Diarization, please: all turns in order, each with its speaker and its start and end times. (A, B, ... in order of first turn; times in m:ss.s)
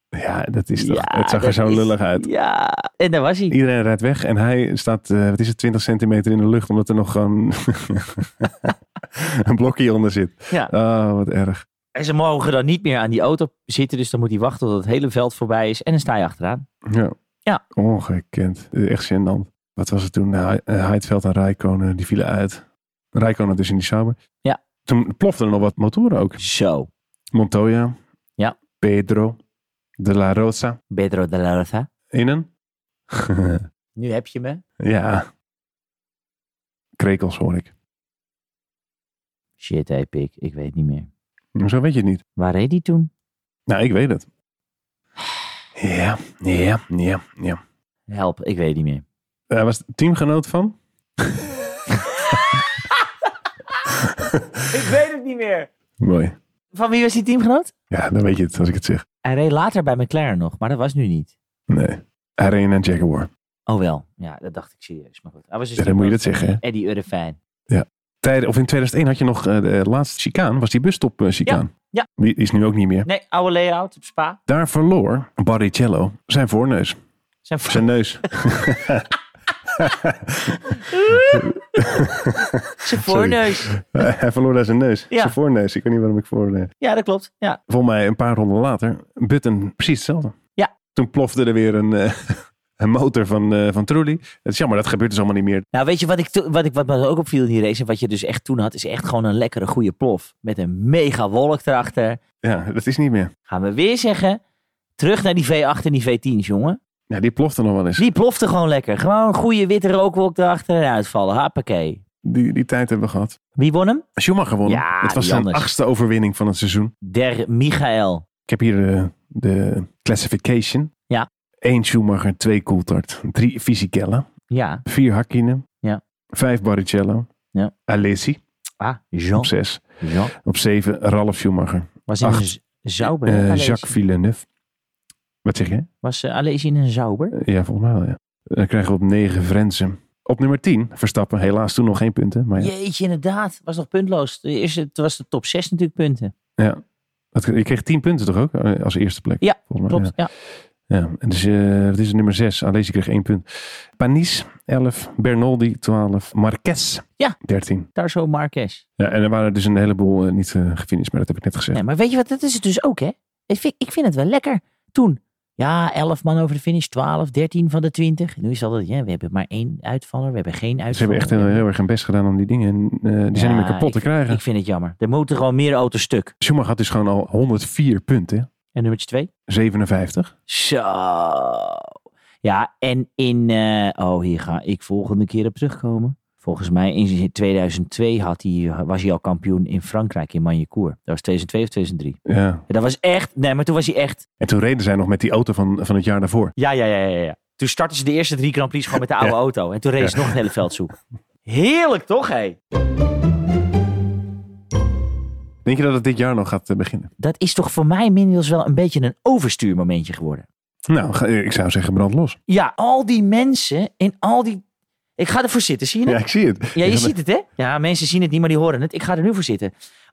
0:00.1-0:02.3 A
0:00.8-0:03.6 B
0:03.5-0:11.6 A
0:11.9-0:16.7 B
0:16.9-0:17.2 A
0:17.7-0:24.2 A
0:24.9-0:26.4 A
0:26.4-0:26.9 B
0:27.3-0:28.0 A
0:28.8-0:29.4 A
0:30.0-0:30.8 A
0:30.9-0:31.9 B
0:32.1-0:32.5 A
0:33.1-0:33.6 A
0:34.0-0:34.6 B
0:34.8-0:35.3 A
0:37.0-0:37.7 A
0:39.6-0:41.1 B
0:41.6-0:42.2 A
0:42.4-0:43.1 B
0:43.7-0:44.3 A
0:45.8-0:47.6 A
0:48.1-0:49.0 B
0:49.5-0:51.5 A
0:51.9-0:53.1 B
0:53.9-0:54.6 A
0:54.7-0:55.7 B
0:56.0-0:56.4 A
0:56.7-0:57.7 B
0:57.9-0:59.0 A
0:59.2-1:01.3 B
1:01.7-1:03.3 A
1:03.7-1:07.4 B
1:05.8-1:06.6 A
1:07.7-1:13.1 A
1:11.5-1:12.1 B
1:13.0-1:14.4 B
1:14.5-1:17.0 A
1:17.5-1:17.9 B
1:17.7-1:19.1 A
1:19.8-1:26.7 A
1:20.8-1:22.0 B
1:22.8-1:23.8 B
1:26.8-1:27.6 B
1:27.7-1:30.4 A
1:30.9-1:35.7 A
1:35.7-1:42.2 B
1:42.4-1:43.3 A
1:43.5-1:44.4 B
1:45.0-1:46.8 B
1:47.1-1:48.1 A
1:48.0-1:52.0 B
1:52.2-1:53.4 A
1:53.6-1:54.0 B
1:54.2-1:56.9 A
1:54.7-1:55.7 B
1:57.0-1:58.2 B
1:58.5-2:00.9 A
2:01.6-2:04.3 A
2:04.5-2:04.8 B
2:04.9-2:05.6 A
2:06.3-2:07.3 A
2:07.9-2:08.4 A
2:08.8-2:10.3 B
2:09.4-2:12.5 A
2:12.1-2:13.9 B
2:13.0-2:14.5 A
2:15.4-2:15.9 A
2:16.0-2:17.4 B
2:17.3-2:22.7 A
2:22.6-2:26.3 B
2:27.3-2:30.1 A
2:29.4-2:30.3 B
2:30.9-2:33.4 A
2:34.0-2:37.9 A
2:38.0-2:38.8 B
2:39.0-2:41.8 A
2:41.7-2:51.6 B
2:50.9-2:54.4 A
2:53.4-2:56.3 B
2:56.4-2:58.5 A
2:58.7-2:59.3 B
2:59.5-3:00.3 A
3:00.5-3:01.9 B
3:02.4-3:14.2 B
3:12.3-3:12.6 A
3:14.4-3:16.6 A
3:16.6-3:22.6 B
3:20.0-3:20.4 A
3:25.6-3:27.1 A
3:27.2-3:30.5 B
3:30.9-3:32.4 A
3:32.5-3:34.6 B
3:35.2-3:36.2 B
3:36.1-3:37.1 A
3:36.8-3:39.7 B